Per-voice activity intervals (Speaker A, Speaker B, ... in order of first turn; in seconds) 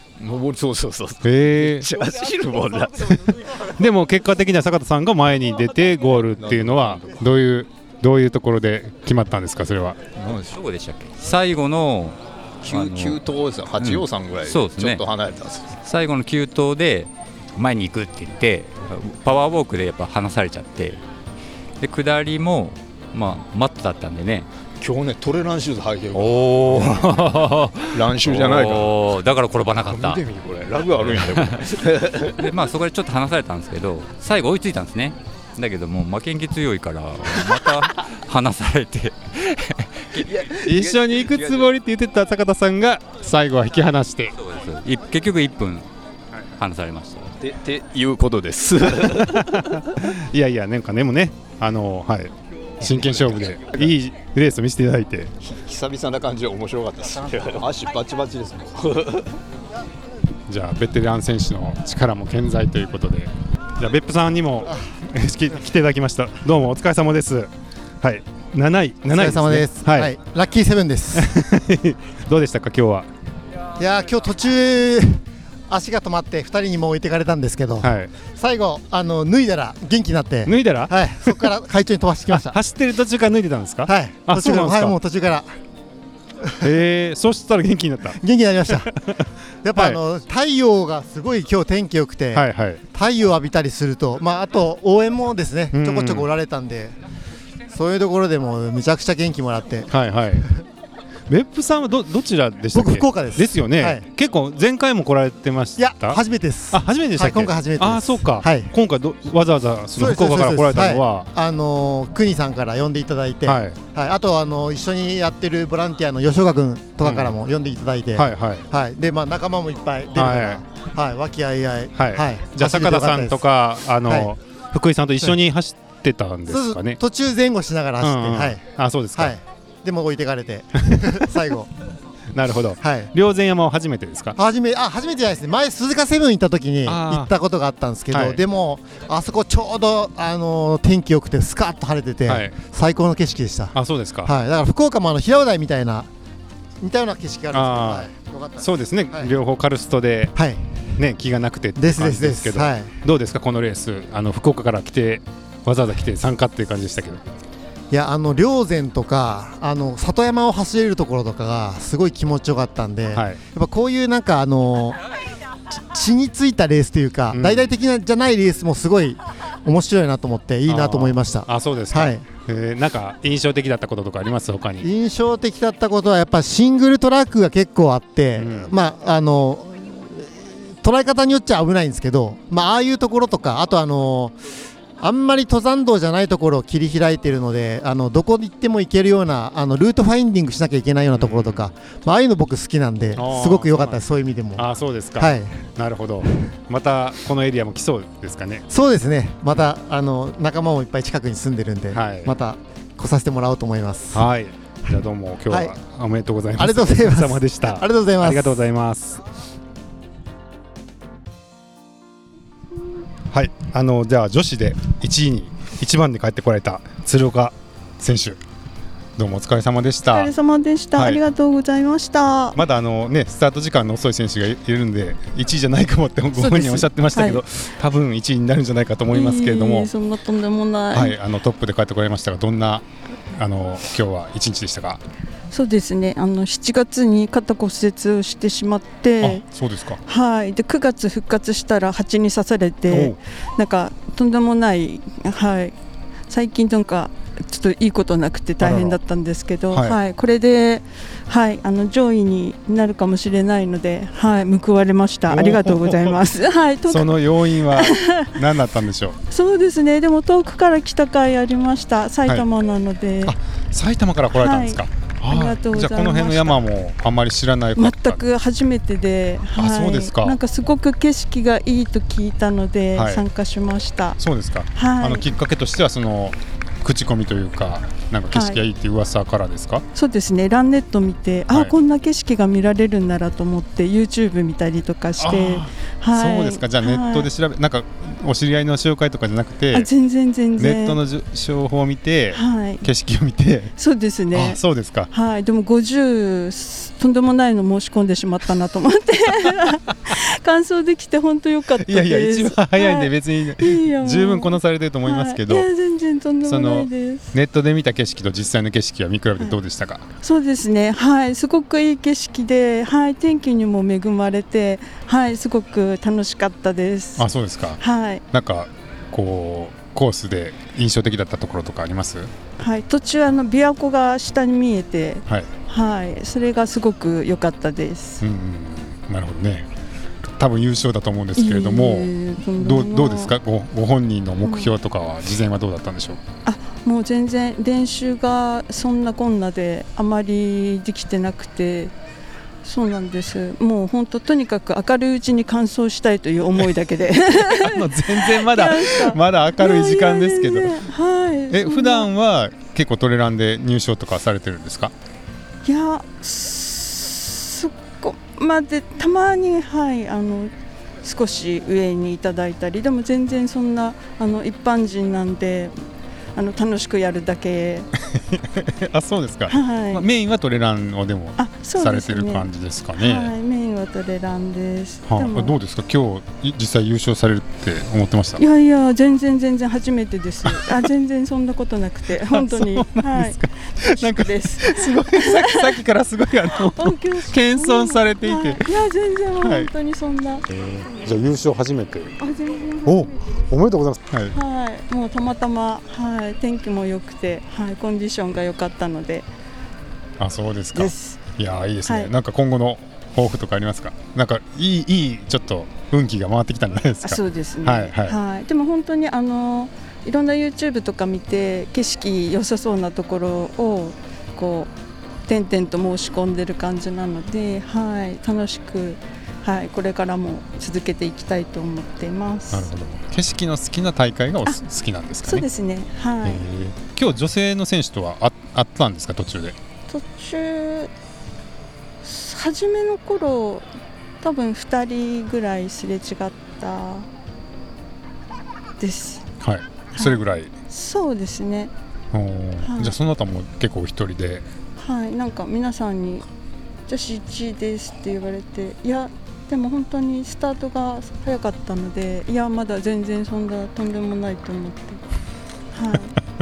Speaker A: 0.2-3.6, 6.4-7.2, 10.2-10.5, 12.6-15.7, 24.8-27.1, 27.9-29.1, 29.8-32.5, 40.2-41.7, 47.4-49.7, 52.8-53.5, 55.4-59.4
Speaker B: 1.2-1.9, 3.6-10.0, 40.5-44.4, 49.2-55.3, 60.5-70.1, 71.1-73.1, 77.8-78.1, 80.4-81.5, 82.3-85.0, 86.6-90.0, 92.3-92.8, 95.7-96.3, 99.9-100.5, 101.3-111.3, 113.4-113.8, 117.0-117.3, 118.1-118.7, 120.1-120.6, 121.9-127.0, 128.0-129.3, 130.9-131.2, 132.3-134.4, 136.8-137.3, 138.1-138.4, 142.3-142.6, 143.7-144.3, 147.5-150.4, 151.0-157.2, 163.1-163.4, 167.3-167.7, 170.7-174.9, 178.3-178.7, 191.1-191.7, 193.1-194.0, 194.6-198.7, 201.9-202.3, 204.1-209.2, 213.3-218.4, 219.2-220.3, 220.9-221.2, 222.5-229.9, 230.9-235.0, 239.2-240.0, 242.9-243.2, 248.6-249.0, 249.7-250.0, 255.3-256.2, 256.9-259.2, 263.2-268.2, 269.6-270.4, 272.9-273.2, 274.2-279.8, 285.2-289.9, 290.6-293.7, 294.3-295.1, 301.8-305.7, 306.4-310.1, 317.2-322.3, 325.3-325.5, 328.2-329.7, 330.2-336.2, 347.4-350.9, 351.5-354.9, 368.1-373.3, 375.1-378.4, 380.4-380.9, 382.1-388.8, 389.4-389.7, 390.5-392.2, 392.8-394.4, 400.2-408.2, 422.5-425.5, 426.2-429.6, 439.4-440.5, 442.1-444.4
Speaker C: 10.3-13.2, 13.8-15.0, 15.7-21.0, 21.8-24.5, 26.1-30.2, 31.0-31.7, 32.4-40.4, 44.4-45.9, 46.6-47.3
Speaker D: 69.1-71.3, 73.8-82.5, 83.9-85.5, 88.2-88.9, 89.6-97.0, 97.7-99.9, 102.7-104.0, 105.8-108.7, 110.0-123.4, 124.0-124.3, 126.5-128.6, 129.2-131.7, 132.8-133.1, 134.4-146.1, 146.8-149.3, 150.4-150.8, 151.8-152.9, 157.9-165.0, 165.7-172.2, 174.8-184.4, 185.0-194.7, 195.2-195.5, 198.7-204.2, 206.6-208.6
Speaker E: 220.1-222.6, 226.3-227.4, 229.1-231.2, 235.5-239.4, 240.1-245.7, 246.3-258.4, 259.3-263.4, 264.3-266.6, 267.8-274.2, 274.7-275.3, 278.3-278.6, 279.9-287.3, 289.7-291.0, 292.3-292.9, 293.8-307.3, 310.2-317.3, 317.8-318.2, 322.6-328.2, 331.4-333.3, 334.4-334.7, 336.4-341.9, 342.6-352.1, 355.6-360.5, 361.0-365.7, 366.3-367.9, 369.5-370.1, 371.4-375.6, 378.4-385.8, 386.6-390.4, 392.2-393.2, 394.3-399.3, 400.7-401.1, 401.8-402.1, 407.0-414.7, 415.3-422.7, 425.2-426.4, 429.9-430.9, 432.0-433.7, 434.2-437.1, 438.8-439.2, 439.9-441.7, 442.6-443.0, 444.8-446.2, 446.9-455.0, 455.7-456.1